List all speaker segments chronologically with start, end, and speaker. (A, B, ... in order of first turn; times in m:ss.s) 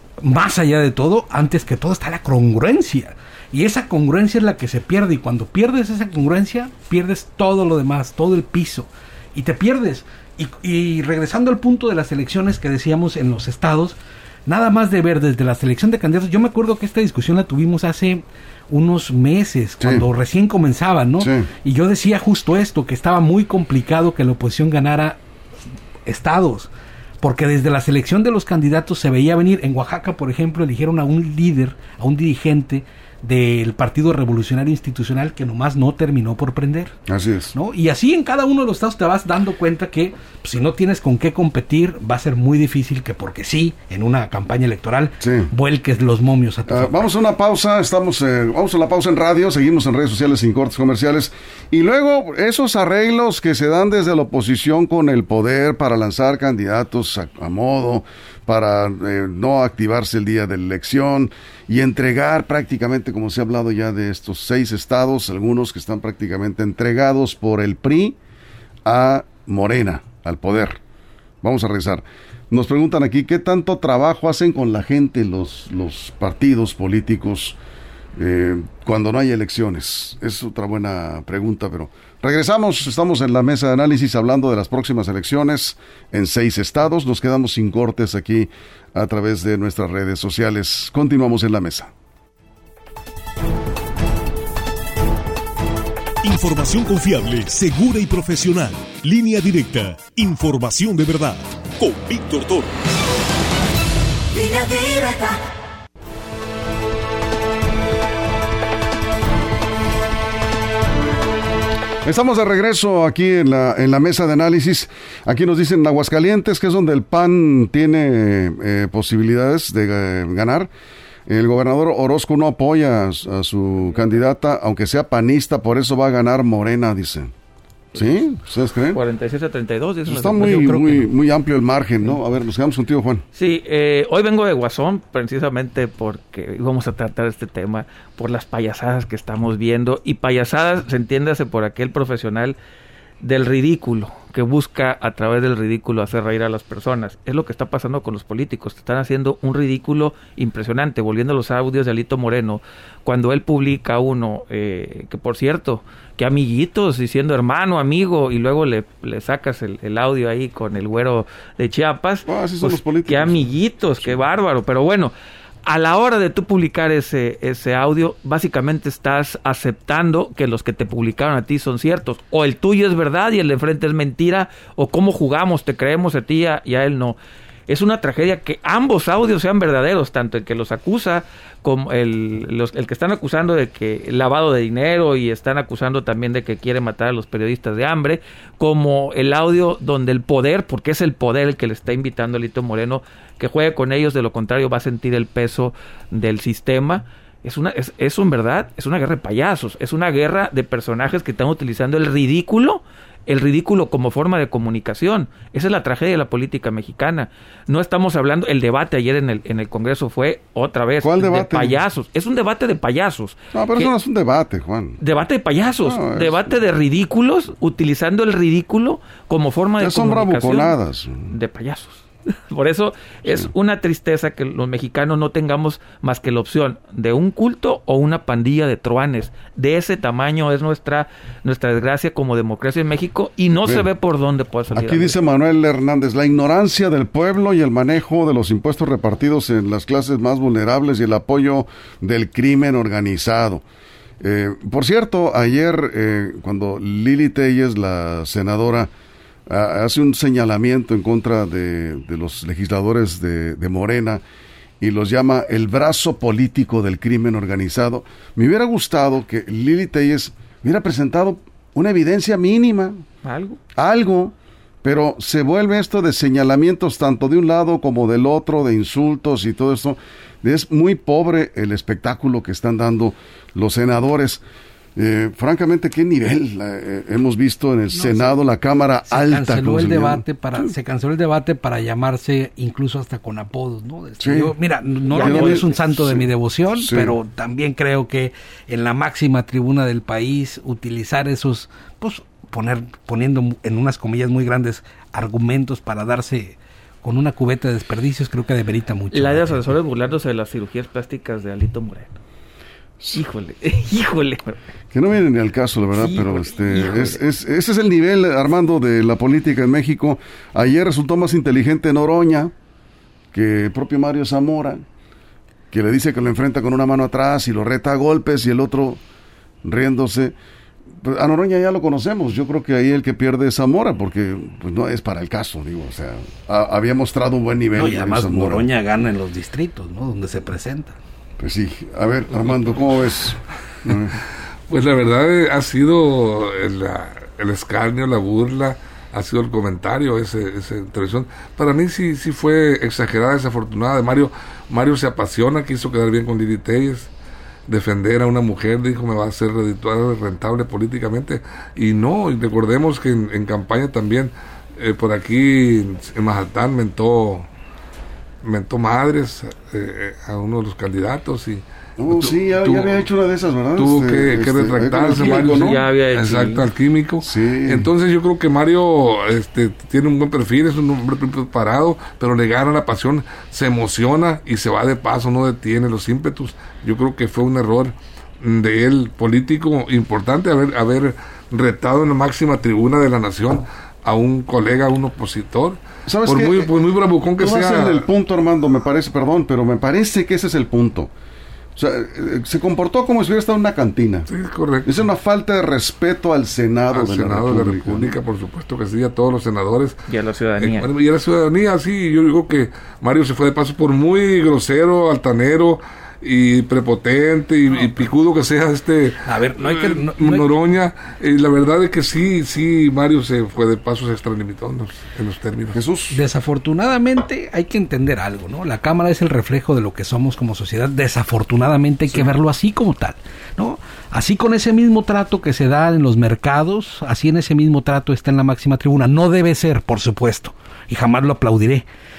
0:00.2-0:25.2 A
0:19.8-0:20.0 B
0:21.2-0:21.5 B
0:26.1-0:26.7 A
0:27.2-0:37.0 A
0:37.1-0:37.5 B
0:37.5-0:47.1 A
0:45.2-0:45.5 B
0:46.7-1:08.2 B
1:08.8-1:10.8 B
1:11.4-1:17.6 B
1:18.2-1:31.9 B
1:36.2-1:42.7 C
1:44.5-1:45.3 D
1:52.0-2:00.7 B
2:01.3-2:07.3 B
2:07.9-2:09.0 B
2:08.9-2:11.0 D
2:10.1-2:13.2 B
2:10.4-2:11.0 A
2:13.4-2:22.6 D
2:23.2-2:45.1 D
2:42.3-2:44.2 B
2:45.7-2:57.2 D
2:57.7-3:33.9 D
3:31.0-3:31.8 B
3:33.5-3:35.0 B
3:35.0-3:40.8 D
3:35.8-3:36.5 B
3:39.8-3:41.3 B
3:41.3-3:55.2 D
3:54.7-4:03.6 B
4:04.2-4:08.9 B
4:09.5-4:14.2 B
4:14.8-4:23.0 B
4:23.2-4:23.6 D
4:23.8-4:34.4 B
4:35.0-4:40.6 B
4:37.9-4:38.4 A
4:39.1-4:59.7 A
4:44.2-4:44.5 B
4:45.1-4:45.6 D
4:45.2-4:47.2 B
4:59.1-5:02.2 D
5:03.1-5:04.6 D
5:04.9-5:12.5 B
5:06.0-5:07.2 D
5:13.3-5:14.8 B
5:15.7-5:19.0 B
5:19.6-5:20.4 B
5:21.0-5:28.7 B
5:27.8-5:31.0 A
5:31.4-5:34.2 B
5:34.7-5:47.1 E
5:47.7-5:57.5 E
5:58.4-6:03.0 E
6:02.0-6:05.8 B
6:03.8-6:28.0 E
6:05.1-6:06.6 D
6:07.2-6:07.9 B
6:26.1-6:26.7 B
6:27.4-6:31.1 B
6:31.8-6:34.3 B
6:34.3-6:35.0 E
6:34.8-6:38.2 B
6:36.9-6:40.0 E
6:40.1-6:40.9 D
6:40.6-6:55.8 E
6:49.2-6:50.5 A
6:55.7-6:56.2 B
6:56.1-7:11.8 A